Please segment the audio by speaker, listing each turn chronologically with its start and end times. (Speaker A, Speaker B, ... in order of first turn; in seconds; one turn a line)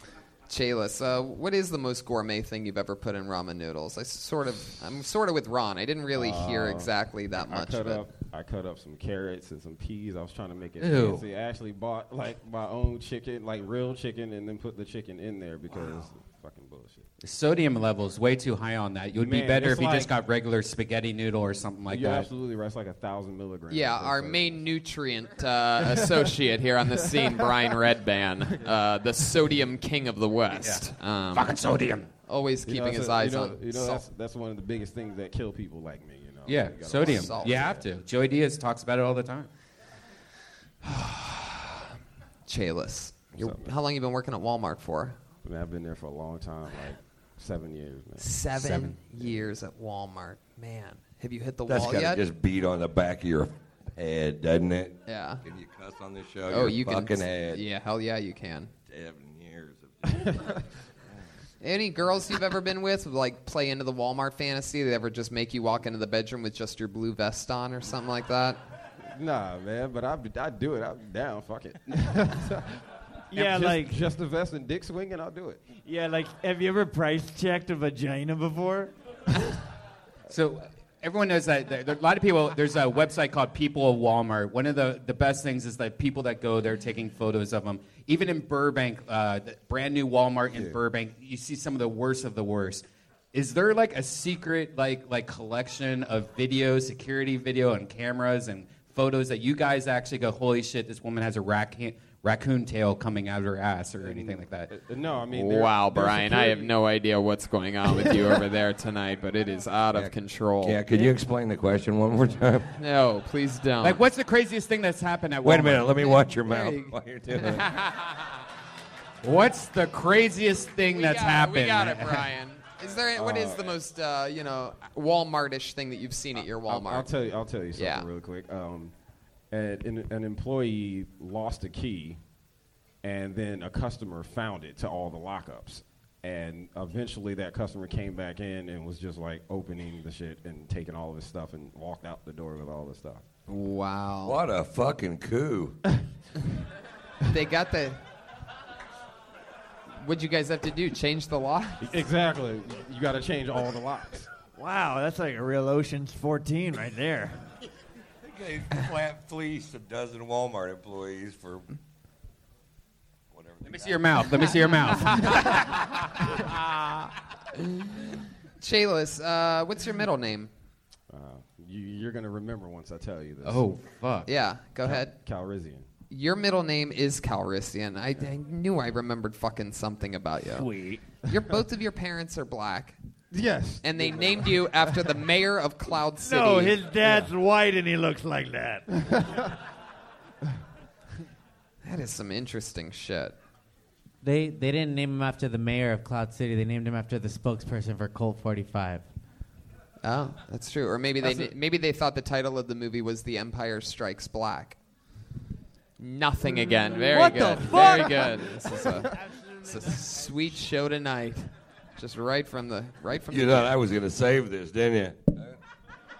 Speaker A: 0.5-8.1
Speaker B: 6.1-17.1
Speaker C: 10.8-11.2
Speaker C: 17.2-22.3
Speaker B: 19.1-20.1
Speaker B: 21.9-24.7
Speaker A: 23.7-31.5
Speaker B: 25.8-26.3
Speaker B: 26.9-27.7
Speaker B: 28.4-28.7
Speaker C: 31.3-32.1
Speaker A: 32.3-34.0
Speaker B: 32.6-37.8
Speaker C: 36.5-39.5
Speaker A: 36.9-37.8
Speaker A: 40.9-41.6
Speaker A: 42.5-45.2
Speaker B: 43.3-43.7
Speaker B: 45.4-48.3
Speaker A: 48.2-52.2
Speaker C: 48.5-49.0
Speaker D: 51.7-57.6
Speaker A: 55.1-55.4
Speaker A: 56.5-58.7
Speaker D: 58.9-60.4
Speaker A: 61.6-68.6
Speaker B: 69.0-72.8
Speaker E: 73.3-74.0
Speaker B: 73.3-75.6
Speaker E: 75.7-78.9
Speaker C: 80.3-104.7
Speaker D: 90.5-90.8
Speaker B: 104.0-106.7
Speaker A: 105.3-111.0
Speaker B: 107.9-108.4
Speaker D: 109.9-112.7
Speaker A: 112.7-114.0
Speaker C: 113.8-116.0
Speaker D: 115.4-117.6
Speaker A: 115.9-118.3
Speaker C: 119.2-122.3
Speaker A: 120.8-127.1
Speaker B: 123.1-123.7
Speaker B: 126.4-128.9
Speaker A: 127.7-128.1
Speaker B: 129.5-132.2
Speaker B: 133.0-143.2
Speaker A: 143.5-144.4
Speaker D: 144.2-145.8
Speaker A: 147.3-148.0
Speaker A: 150.0-152.0
Speaker B: 151.8-154.3
Speaker E: 154.6-157.4
Speaker D: 158.2-161.7
Speaker D: 163.3-164.2
Speaker C: 163.6-165.9
Speaker A: 168.6-170.5
Speaker B: 171.1-173.7
Speaker C: 173.4-174.3
Speaker A: 174.2-175.1
Speaker B: 174.8-175.9
Speaker A: 176.1-180.7
Speaker A: 181.2-183.0
Speaker B: 183.3-185.1
Speaker A: 183.8-186.8
Speaker E: 186.2-188.8
Speaker B: 187.0-187.3
Speaker A: 191.8-193.3
Speaker F: 194.2-199.1
Speaker A: 200.0-204.8
Speaker A: 206.0-213.8
Speaker E: 206.9-208.5
Speaker B: 206.9-207.8
Speaker D: 213.3-215.6